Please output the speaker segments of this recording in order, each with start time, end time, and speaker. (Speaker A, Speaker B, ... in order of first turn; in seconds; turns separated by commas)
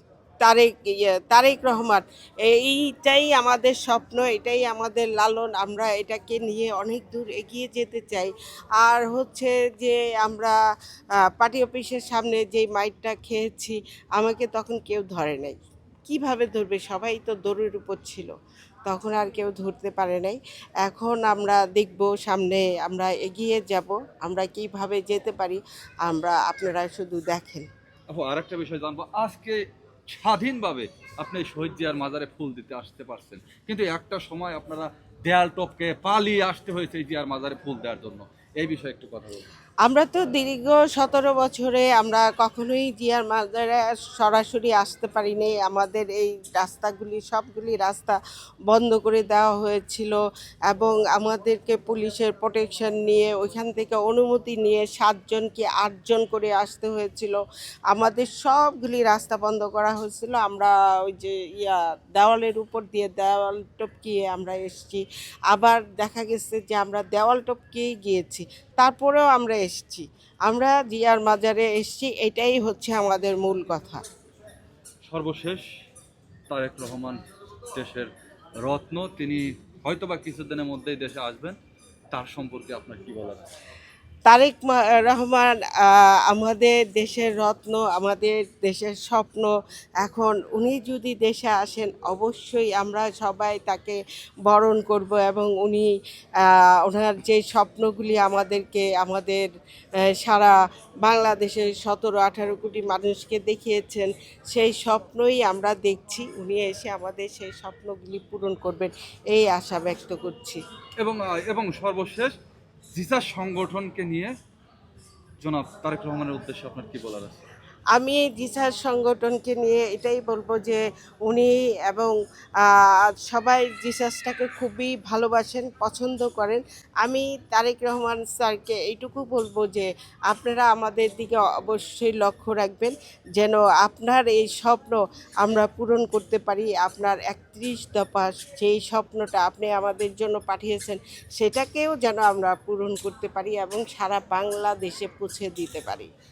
Speaker A: 0.4-10.6, Speaker A: 11.2-18.3, Speaker A: 18.9-27.7, Speaker B: 28.1-29.6, Speaker B: 30.1-39.5, Speaker A: 39.8-48.2, Speaker A: 48.7-50.2, Speaker A: 50.7-57.4, Speaker A: 57.9-74.0, Speaker B: 75.0-75.6, Speaker B: 76.5-77.2, Speaker B: 77.7-78.1, Speaker B: 78.6-81.5, Speaker B: 82.1-83.5, Speaker A: 84.3-89.5, Speaker A: 90.0-95.9, Speaker A: 96.5-99.5, Speaker A: 100.2-110.6, Speaker B: 111.0-112.3, Speaker B: 112.9-114.3, Speaker B: 115.4-117.4, Speaker A: 117.9-122.1, Speaker A: 122.7-146.1